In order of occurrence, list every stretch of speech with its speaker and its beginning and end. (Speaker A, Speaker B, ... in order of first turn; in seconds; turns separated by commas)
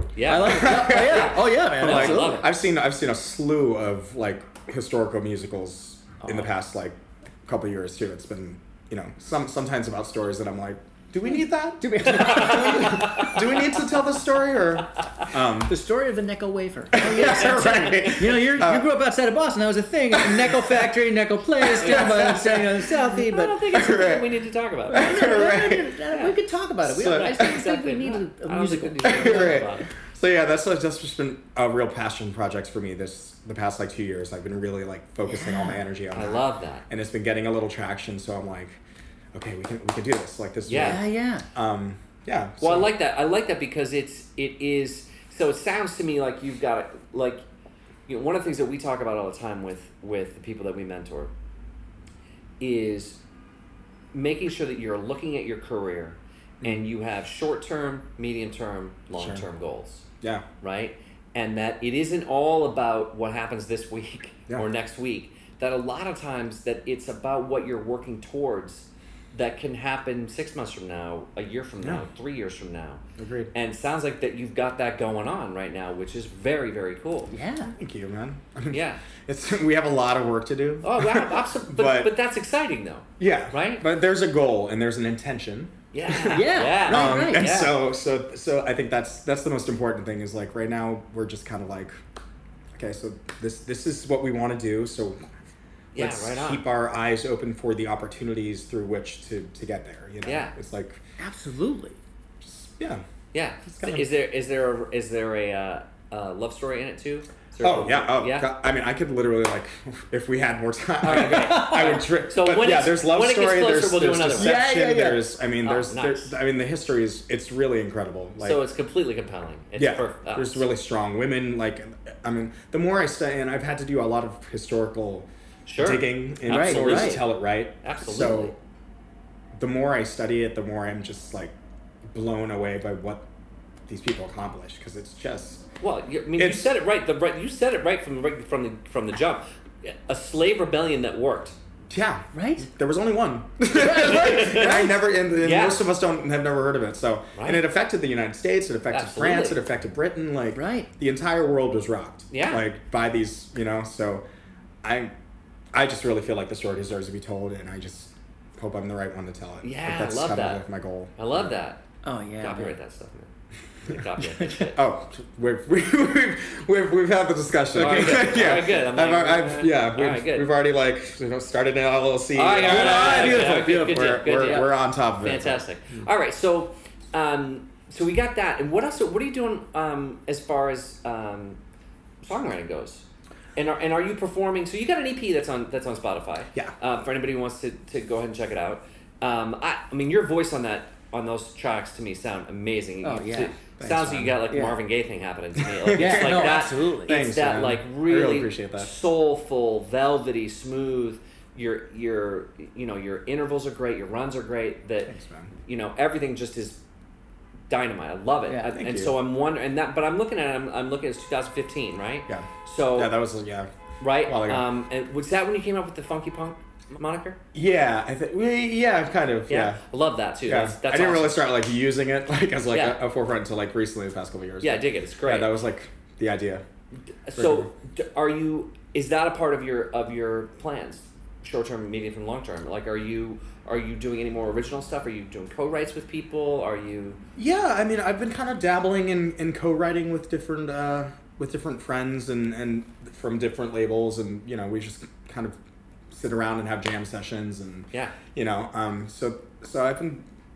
Speaker A: 0.2-2.5, Speaker B: 0.3-2.5, Speaker C: 0.3-15.8, Speaker B: 11.3-13.4, Speaker A: 12.2-13.8, Speaker B: 15.7-23.7, Speaker C: 16.9-18.9, Speaker A: 17.1-18.2, Speaker C: 20.1-20.9, Speaker C: 21.6-22.9, Speaker A: 21.8-25.3, Speaker C: 23.7-24.4, Speaker B: 24.9-29.7, Speaker C: 24.9-26.1, Speaker C: 26.9-27.6, Speaker A: 27.0-29.9, Speaker C: 29.1-38.8, Speaker B: 35.3-35.8, Speaker A: 36.1-36.9, Speaker C: 39.3-42.9, Speaker A: 40.7-41.0, Speaker B: 40.8-41.5, Speaker A: 42.6-47.4, Speaker A: 48.1-51.3, Speaker A: 52.6-53.2, Speaker A: 54.1-60.1, Speaker C: 56.6-56.9, Speaker C: 59.2-59.5, Speaker C: 60.2-60.5, Speaker A: 60.6-77.3, Speaker C: 71.8-72.1, Speaker C: 73.2-73.5, Speaker B: 77.3-77.7, Speaker C: 77.7-82.2, Speaker A: 78.7-79.0, Speaker A: 80.8-83.8, Speaker C: 83.2-92.0, Speaker A: 85.9-87.8, Speaker B: 86.3-87.5, Speaker C: 92.7-95.3, Speaker A: 95.9-96.6, Speaker C: 96.0-101.0, Speaker A: 100.2-100.5, Speaker B: 101.2-102.0, Speaker C: 102.4-103.0, Speaker A: 103.3-108.5, Speaker C: 103.7-104.1, Speaker C: 107.6-118.6, Speaker A: 111.0-114.6, Speaker B: 111.1-112.0, Speaker B: 114.3-115.3, Speaker A: 115.6-116.4, Speaker A: 118.4-120.7, Speaker C: 119.8-128.6, Speaker A: 125.7-127.3, Speaker B: 126.5-127.2, Speaker A: 127.8-128.5, Speaker C: 129.6-131.5, Speaker C: 132.1-133.3, Speaker C: 133.9-135.7, Speaker A: 135.8-141.6, Speaker C: 136.4-136.7, Speaker C: 141.9-154.2, Speaker B: 142.3-142.7, Speaker B: 143.7-144.9, Speaker A: 143.8-144.9, Speaker A: 145.4-145.8, Speaker A: 147.4-147.6, Speaker A: 148.9-149.6, Speaker B: 150.6-150.9, Speaker A: 152.3-152.6, Speaker C: 154.8-155.1, Speaker C: 155.7-161.5, Speaker A: 159.6-160.6, Speaker A: 161.2-161.8, Speaker B: 162.0-162.7, Speaker A: 162.4-163.3, Speaker A: 163.8-164.8, Speaker B: 164.4-164.7, Speaker C: 164.6-176.1, Speaker A: 167.7-170.5, Speaker B: 167.8-168.5, Speaker A: 172.3-181.6, Speaker B: 172.6-174.7, Speaker A: 182.2-206.8, Speaker B: 193.0-193.5, Speaker C: 193.8-194.4, Speaker B: 194.5-194.8, Speaker C: 195.6-198.9, Speaker B: 195.9-197.2, Speaker C: 205.0-205.5, Speaker A: 207.7-213.1, Speaker B: 208.5-208.7, Speaker C: 208.7-209.2, Speaker C: 212.3-213.7, Speaker A: 214.0-217.4, Speaker C: 214.2-214.7, Speaker C: 217.5-219.8, Speaker A: 219.5-221.4, Speaker C: 220.4-226.6, Speaker A: 222.7-223.0, Speaker A: 224.6-225.5, Speaker A: 227.3-237.2, Speaker C: 227.3-227.7, Speaker C: 237.4-245.6, Speaker C: 246.1-250.3